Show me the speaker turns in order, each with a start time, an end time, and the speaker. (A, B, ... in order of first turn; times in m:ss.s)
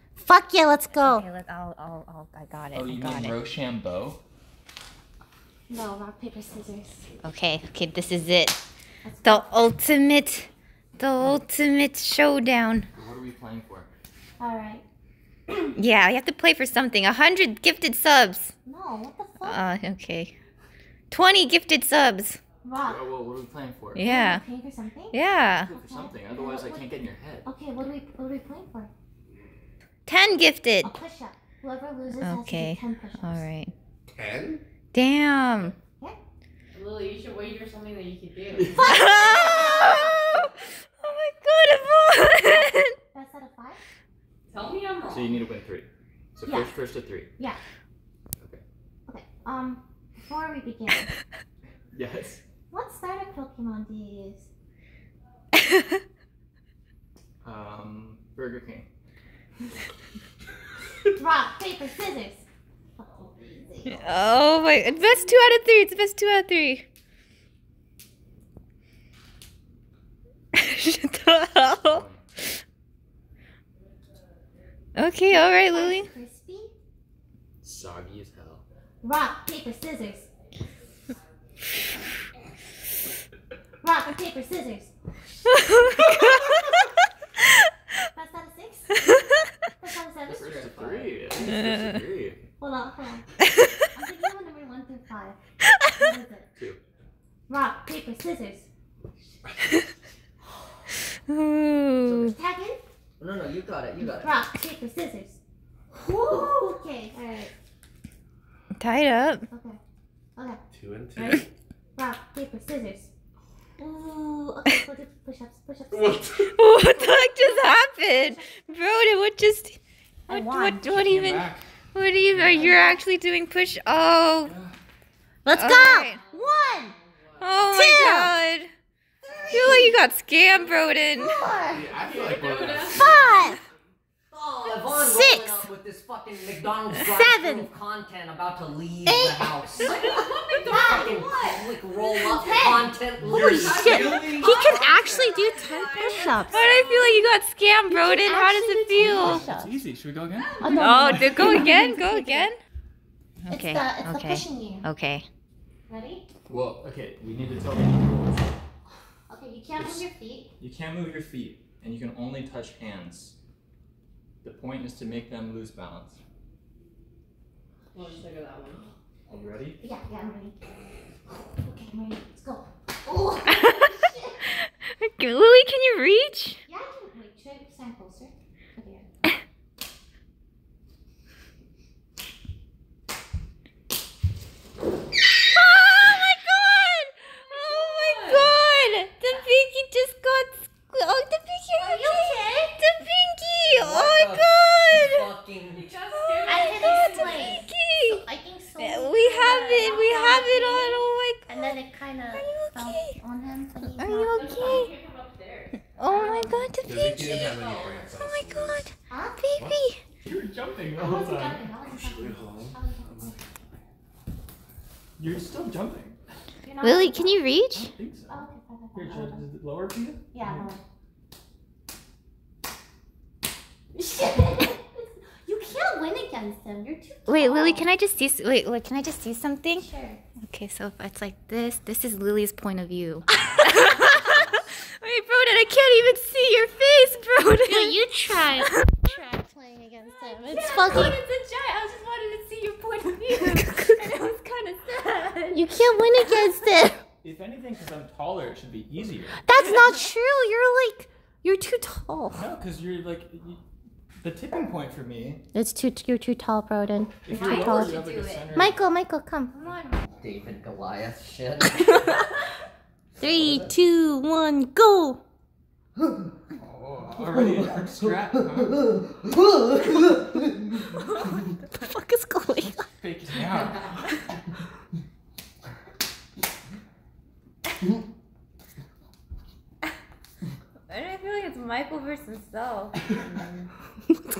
0:00.2-0:01.2 A
0:01.0-0:03.4 B
0:02.7-0:04.2 C
0:05.7-0:07.1 A
0:07.2-0:08.6 B
0:09.0-0:09.5 A
0:09.2-0:12.9 B
0:12.9-0:13.9 C
0:14.4-0:14.8 A
0:15.8-0:18.5 B
0:18.6-0:19.6 A
0:19.4-0:20.3 B
0:21.1-0:22.4 B
0:22.6-0:23.0 A
0:22.8-0:24.0 C
0:23.9-0:24.4 B
0:24.0-0:26.9 A
0:25.1-0:25.7 B
0:25.6-0:27.5 C
0:27.4-0:28.9 A
0:30.1-0:30.9 B
0:30.8-0:33.5 A
0:32.2-0:33.7 B
0:34.1-0:34.6 D
0:34.9-0:35.8 B
0:36.7-0:38.8 E
0:38.7-0:40.2 A
0:38.8-0:43.0 B
0:43.1-0:43.8 A
0:44.5-0:45.3 E
0:45.1-0:47.3 C
0:46.4-0:46.7 A
0:49.1-0:51.1 A
0:51.9-0:52.4 C
0:52.7-0:54.5 A
0:57.4-0:58.9 C
1:01.1-1:04.0 A
1:03.9-1:06.8 B
1:10.5-1:12.6 B
1:11.8-1:12.2 C
1:14.9-1:16.1 B
1:15.3-1:16.7 A
1:17.6-1:18.6 C
1:19.0-1:20.3 A
1:23.8-1:24.9 A
1:25.7-1:26.7 A
1:28.1-1:29.0 A
1:29.8-1:30.5 A
1:30.2-1:31.4 F
1:30.3-1:32.4 C
1:32.6-1:33.2 A
1:33.9-1:36.5 A
1:37.5-1:38.7 A
1:41.3-1:42.3 B
1:42.0-1:42.3 F
1:42.3-1:42.8 A
1:43.2-1:44.4 F
1:44.2-1:45.4 A
1:45.9-1:47.5 A
1:48.8-1:49.5 B
1:49.5-1:49.8 A
1:50.7-1:51.4 D
1:51.1-1:53.1 A
1:53.8-1:56.5 A
1:56.4-2:04.5 B
1:57.1-1:57.4 A
1:58.2-1:58.9 A
2:00.3-2:00.9 A
2:00.9-2:01.7 C
2:02.3-2:02.8 C
2:04.4-2:04.7 C
2:05.4-2:06.9 A
2:05.5-2:06.2 B
2:06.0-2:07.6 E
2:07.4-2:08.7 B
2:07.7-2:08.3 A
2:09.5-2:09.9 A
2:09.5-2:11.4 B
2:10.5-2:11.1 E
2:11.2-2:11.9 A
2:11.7-2:13.3 D
2:11.8-2:13.7 E
2:12.8-2:13.6 A
2:14.3-2:26.5 F
2:14.9-2:15.7 A
2:17.0-2:17.7 A
2:19.0-2:19.6 A
2:19.9-2:21.6 E
2:20.7-2:21.1 A
2:22.0-2:26.6 A
2:23.2-2:24.3 C
2:24.1-2:25.5 E
2:25.8-2:29.4 B
2:26.2-2:27.3 E
2:27.9-2:29.7 A
2:29.0-2:31.4 C
2:30.4-2:31.2 E
2:30.6-2:32.5 A
2:30.7-2:32.6 B
2:33.5-2:35.3 B
2:33.5-2:34.8 A
2:35.9-2:36.2 A
2:36.5-2:38.5 C
2:39.3-2:40.5 A
2:39.8-2:40.1 C
2:40.6-2:43.3 C
2:44.4-2:46.2 C
2:47.9-2:48.8 E
2:49.3-2:49.8 C
2:49.8-2:50.6 A
2:51.6-2:54.4 A
2:53.5-2:53.8 B
2:54.6-2:56.6 B
2:56.7-2:59.1 A
3:05.4-3:15.2 B
3:07.5-3:08.6 E
3:11.8-3:12.7 A
3:13.7-3:15.9 F
3:15.8-3:17.6 E
3:16.1-3:18.2 B
3:16.4-3:24.9 A
3:18.8-3:21.8 B
3:22.3-3:23.2 B
3:24.0-3:24.9 B
3:24.3-3:25.8 E
3:25.8-3:27.3 B
3:26.1-3:26.6 A
3:26.8-3:28.8 D
3:27.2-3:28.2 E
3:28.1-3:30.0 B
3:29.1-3:29.4 A
3:30.2-3:31.7 C
3:31.0-3:33.4 A
3:31.8-3:32.8 D
3:35.2-3:36.2 C
3:36.6-3:37.4 A
3:36.8-3:37.9 B
3:37.7-3:38.4 C
3:38.3-3:39.4 A
3:38.9-3:40.7 C
3:40.3-3:40.8 A
3:43.9-3:47.8 A
3:47.3-3:49.8 B
3:49.7-3:50.2 A
3:50.4-3:58.0 B
3:53.4-3:54.1 A
3:57.7-4:01.2 A
4:00.3-4:05.6 B
4:03.4-4:03.9 A
4:05.5-4:07.0 A
4:07.2-4:09.4 C
4:09.4-4:12.4 A
4:12.3-4:13.6 C
4:14.2-4:15.4 C
4:15.5-4:18.0 A
4:17.2-4:18.8 C
4:17.3-4:18.5 B
4:18.5-4:19.5 A
4:19.5-4:20.0 B
4:20.2-4:22.2 F
4:23.2-4:25.2 A
4:23.2-4:23.7 F
4:26.6-4:28.8 C
4:31.8-4:32.9 A
4:32.6-4:34.2 C
4:40.9-4:43.7 B